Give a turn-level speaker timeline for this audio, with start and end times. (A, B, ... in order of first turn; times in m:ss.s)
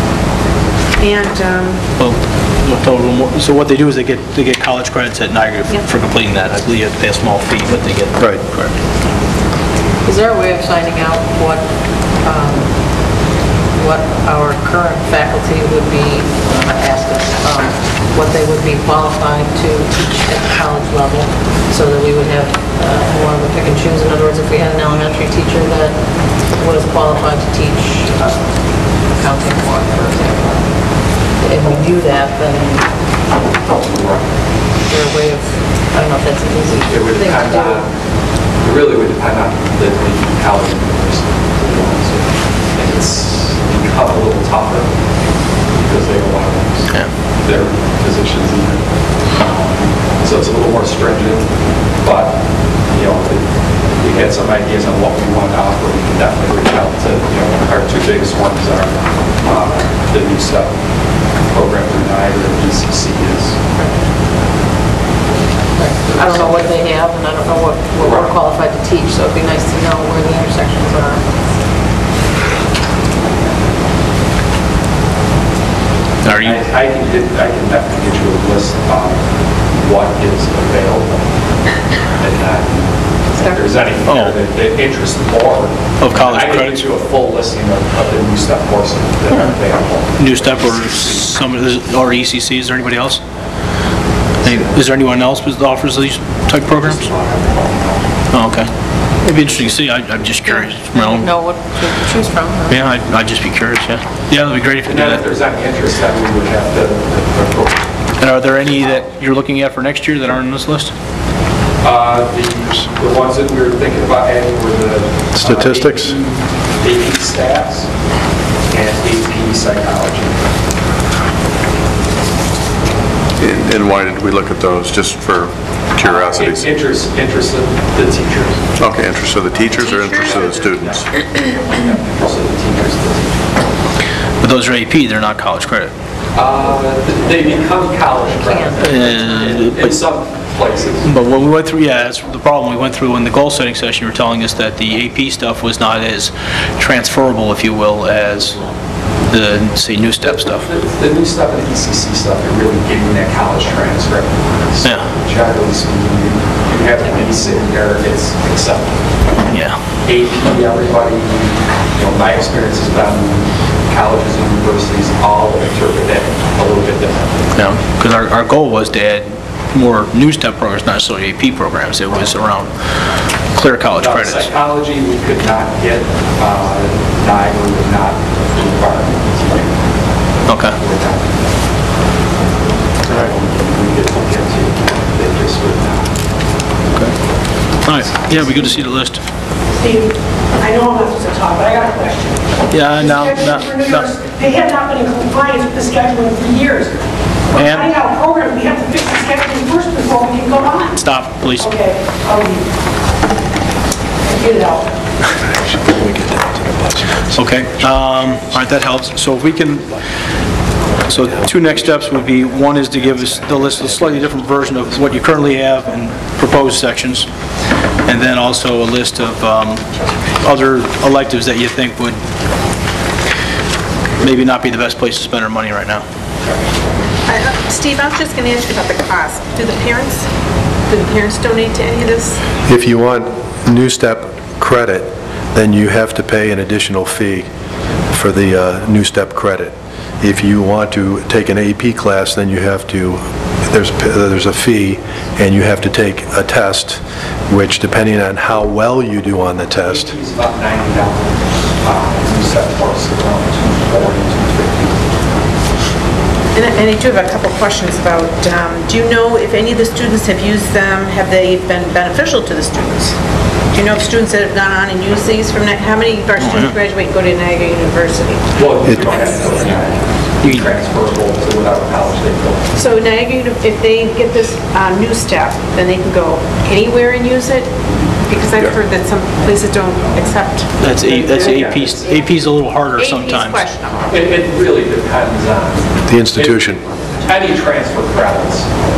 0:01.0-0:01.8 A
0:02.0-0:08.7 B
0:10.0-0:11.7 C
0:12.2-0:12.7 C
0:13.7-0:26.0 C
0:26.6-0:28.6 C
0:29.1-0:30.7 C
0:31.4-0:32.8 C
0:33.6-0:34.3 D
0:34.8-0:37.8 C
0:36.9-0:37.9 D
0:38.6-0:44.9 D
0:45.7-0:46.9 D
0:47.4-1:00.7 D
1:01.5-1:03.6 D
1:05.7-1:11.2 C
1:06.0-1:06.7 D
1:08.0-1:08.3 D
1:16.2-1:16.6 B
1:16.3-1:21.3 D
1:22.2-1:31.2 D
1:24.1-1:24.4 B
1:26.0-1:26.9 B
1:30.2-1:33.2 B
1:34.4-1:37.0 B
1:36.7-1:38.1 D
1:38.3-1:38.7 B
1:39.2-1:41.3 B
1:40.4-1:42.8 C
1:42.7-1:45.2 B
1:44.8-1:47.9 D
1:48.2-1:50.9 B
1:51.8-1:57.9 D
1:55.3-1:56.1 E
1:58.7-2:00.4 D
2:03.4-2:06.7 F
2:06.0-2:08.7 D
2:08.8-2:11.1 F
2:09.5-2:09.8 D
2:09.8-2:10.7 A
2:10.7-2:13.6 D
2:14.4-2:15.9 B
2:16.3-2:21.1 D
2:18.2-2:19.7 C
2:18.8-2:19.9 B
2:21.0-2:28.6 B
2:29.3-2:30.7 B
2:30.6-2:39.0 D
2:34.8-2:35.1 B
2:39.5-2:39.8 B
2:40.0-2:47.5 D
2:47.5-2:52.7 B
2:53.5-2:54.5 B
2:54.0-2:59.8 D
3:00.5-3:00.8 B
3:00.7-3:01.6 D
3:03.0-3:06.1 D
3:07.8-3:09.2 B
3:09.7-3:17.0 G
3:12.7-3:14.1 B
3:17.5-3:21.0 G
3:17.5-3:18.0 B
3:21.0-3:21.7 B
3:21.6-3:22.7 G
3:24.2-3:24.9 G
3:25.3-3:28.0 E
3:27.3-3:29.9 B
3:31.0-3:37.3 B
3:31.5-3:31.8 E
3:38.0-3:39.8 B
3:40.4-3:42.2 B
3:44.2-3:46.0 B
3:47.2-3:50.3 A
3:50.9-3:52.4 A
3:52.6-3:57.5 E
3:58.1-4:10.1 E
4:09.8-4:15.2 D
4:16.5-4:23.2 A
4:23.7-4:29.9 A
4:26.4-4:26.7 B
4:28.5-4:32.7 D
4:28.8-4:29.2 E
4:30.4-4:30.8 B
4:32.8-4:37.8 A
4:38.3-4:41.4 A
4:40.8-4:43.6 B
4:41.4-4:42.1 D
4:42.9-4:44.0 A
4:44.0-4:48.7 D
4:46.1-4:46.8 E